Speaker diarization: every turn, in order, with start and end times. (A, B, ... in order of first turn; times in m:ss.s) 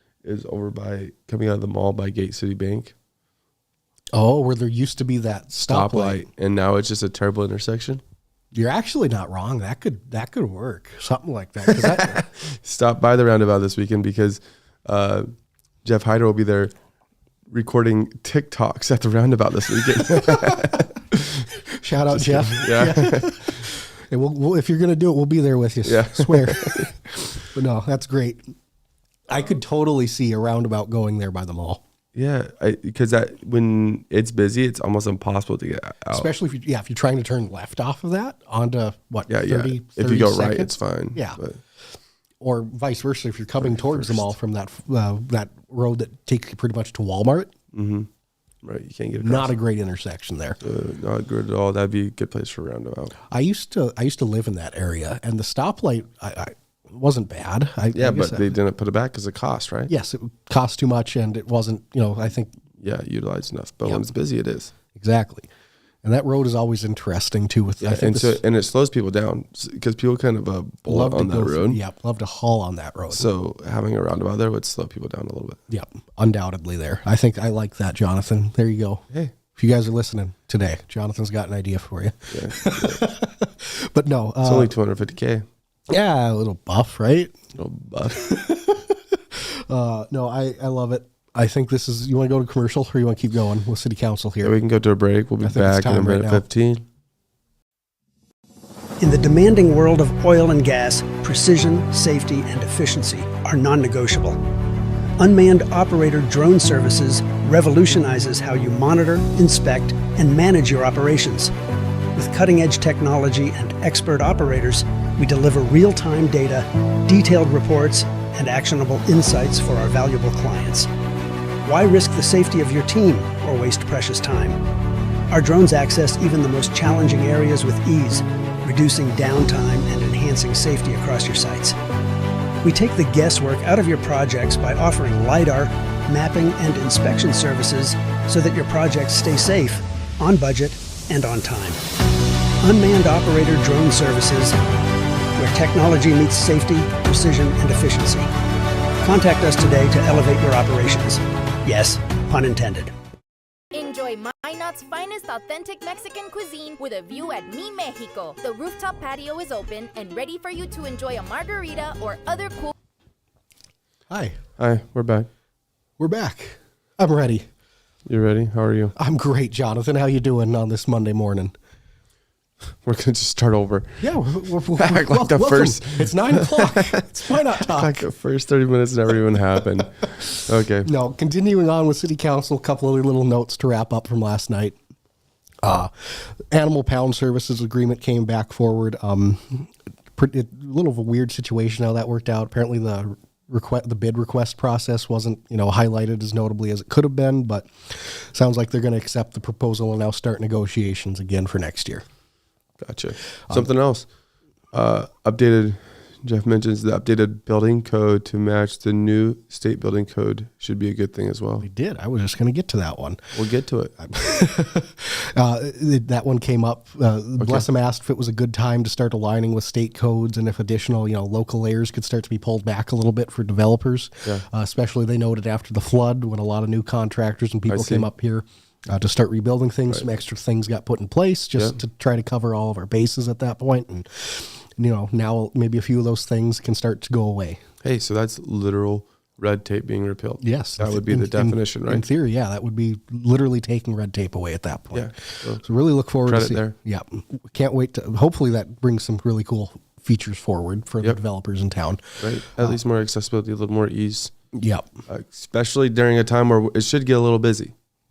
0:00.2-0:02.9 A
0:04.1-0:06.3 B
0:05.6-0:08.0 A
0:08.5-0:12.3 B
0:11.9-0:15.3 A
0:15.8-0:16.7 A
0:17.5-0:21.5 A
0:20.1-0:20.8 B
0:21.8-0:28.5 B
0:22.1-0:23.6 A
0:25.8-0:26.9 A
0:29.3-0:31.8 B
0:32.1-0:36.3 A
0:36.1-0:41.4 B
0:39.3-0:41.6 A
0:42.4-0:47.5 B
0:43.6-0:44.3 A
0:47.7-0:48.1 A
0:48.6-0:49.6 A
0:49.2-0:50.6 B
0:50.6-0:53.2 A
0:53.3-0:58.5 B
0:57.9-0:59.9 A
0:59.9-1:02.5 B
1:02.8-1:04.7 A
1:05.0-1:05.5 B
1:06.0-1:08.4 B
1:07.8-1:11.8 A
1:10.9-1:13.3 B
1:13.1-1:15.6 A
1:15.7-1:24.7 B
1:22.3-1:23.0 A
1:24.4-1:25.5 A
1:25.9-1:27.4 B
1:27.6-1:28.4 A
1:28.2-1:34.6 B
1:34.4-1:36.8 A
1:35.4-1:36.4 B
1:39.0-1:44.4 C
1:45.2-1:51.5 C
1:52.2-2:00.9 C
2:01.6-2:04.6 C
2:05.3-2:11.8 C
2:12.6-2:21.8 C
2:22.6-2:24.6 C
2:25.4-2:28.3 C
2:29.0-2:32.9 C
2:33.7-2:42.7 D
2:44.1-2:44.4 B
2:44.6-2:45.3 A
2:46.0-2:47.4 B
2:48.1-2:48.9 A
2:49.0-2:51.6 B
2:52.8-2:54.0 A
2:54.0-2:58.1 B
2:54.7-3:00.9 A
3:00.8-3:04.8 B
3:05.6-3:22.0 B
3:22.8-3:24.1 A
3:24.7-3:31.7 A
3:31.6-3:33.2 B
3:33.3-3:33.9 A
3:34.0-3:57.6 B
3:37.4-3:37.7 A
3:47.7-3:48.1 A
3:57.8-4:02.0 A
4:00.4-4:12.8 B
4:04.9-4:05.6 A
4:06.2-4:06.8 A
4:12.2-4:14.3 A
4:14.5-4:14.9 B
4:15.1-4:17.7 A